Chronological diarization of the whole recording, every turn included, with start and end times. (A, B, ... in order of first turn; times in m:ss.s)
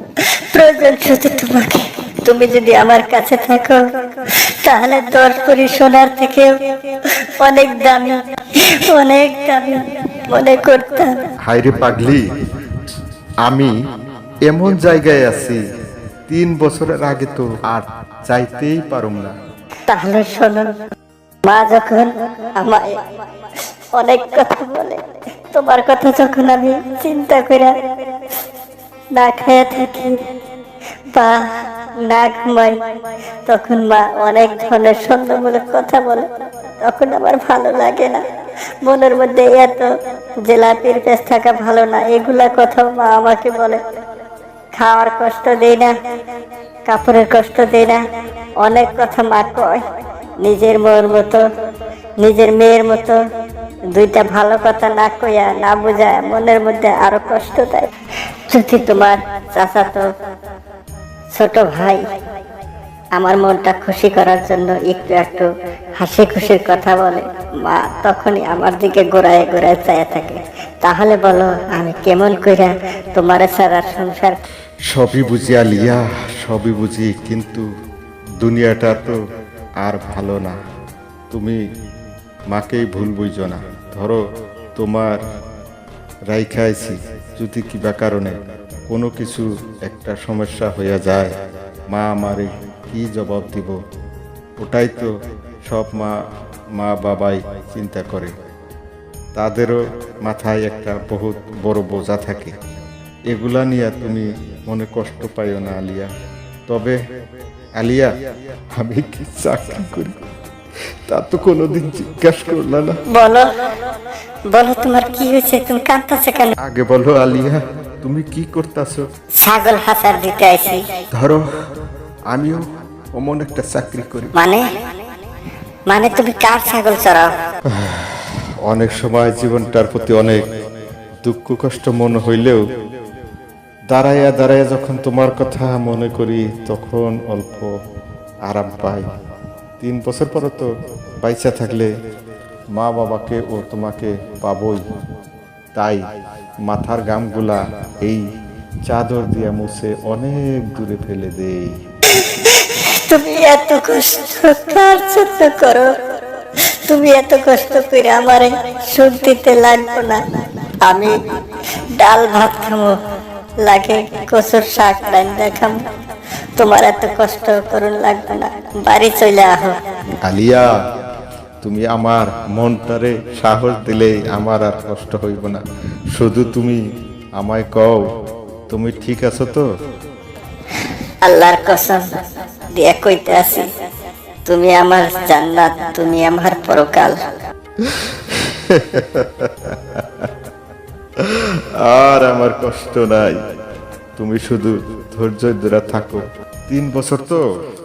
0:00.5-0:11.2 A
0:11.4-0:12.3 B
0:13.4-0:13.8 B
0:14.5-0:15.6 B
0:16.3-0:19.3 B
0:19.9-0:20.7 A
0:21.4-0:23.0 A
0:23.9-0:28.2 A
0:29.2-0:30.2 A
0:31.1-0:31.5 A
0:32.0-0:32.8 A
0:33.4-0:36.3 A
0:36.8-0:38.2 A
0:38.8-0:39.9 A
0:40.4-0:43.8 A
0:44.8-0:45.9 A
0:46.9-0:48.0 A
0:48.6-0:49.8 A
0:50.4-0:51.4 A
0:52.2-0:53.2 A
0:53.9-0:57.9 A
0:58.4-1:00.1 A
1:01.3-1:02.0 A
1:03.2-1:14.4 A
1:14.9-1:17.6 B
1:18.4-1:19.2 B
1:19.8-1:20.6 B
1:21.3-1:21.6 B
1:22.5-1:24.2 B
1:24.8-1:25.1 B
1:26.3-1:28.3 B
1:28.9-1:31.3 B
1:31.9-1:33.8 B
1:34.6-1:35.1 B
1:35.7-1:36.2 B
1:36.8-1:38.3 B
1:39.3-1:42.6 B
1:43.3-1:46.1 B
1:46.7-1:47.0 B
1:47.8-1:48.1 B
1:48.7-1:50.3 B
1:51.1-1:53.0 B
1:53.1-1:53.5 A
1:54.5-1:56.5 A
1:56.6-1:59.0 B
1:59.4-2:00.8 A
2:01.1-2:01.4 B
2:02.3-2:04.3 B
2:04.3-2:04.6 A
2:05.9-2:07.3 A
2:07.7-2:10.4 B
2:11.2-2:12.6 B
2:13.9-2:17.7 B
2:18.4-2:19.0 B
2:19.8-2:20.7 B
2:21.2-2:21.9 B
2:22.7-2:24.8 B
2:25.7-2:26.0 B
2:26.6-2:28.2 B
2:28.9-2:31.8 B
2:32.1-2:40.2 A
2:40.8-2:41.1 A
2:42.0-2:43.0 A
2:43.6-2:45.8 A
2:46.6-2:49.8 A
2:50.2-2:50.7 B
2:51.6-2:55.6 B
2:56.1-2:56.8 B
2:57.4-2:58.0 B
2:58.7-2:59.7 B
3:01.2-3:02.1 A
3:02.7-3:03.7 A
3:04.4-3:07.2 A
3:07.8-3:10.3 B
3:11.2-3:13.4 B
3:14.2-3:17.4 B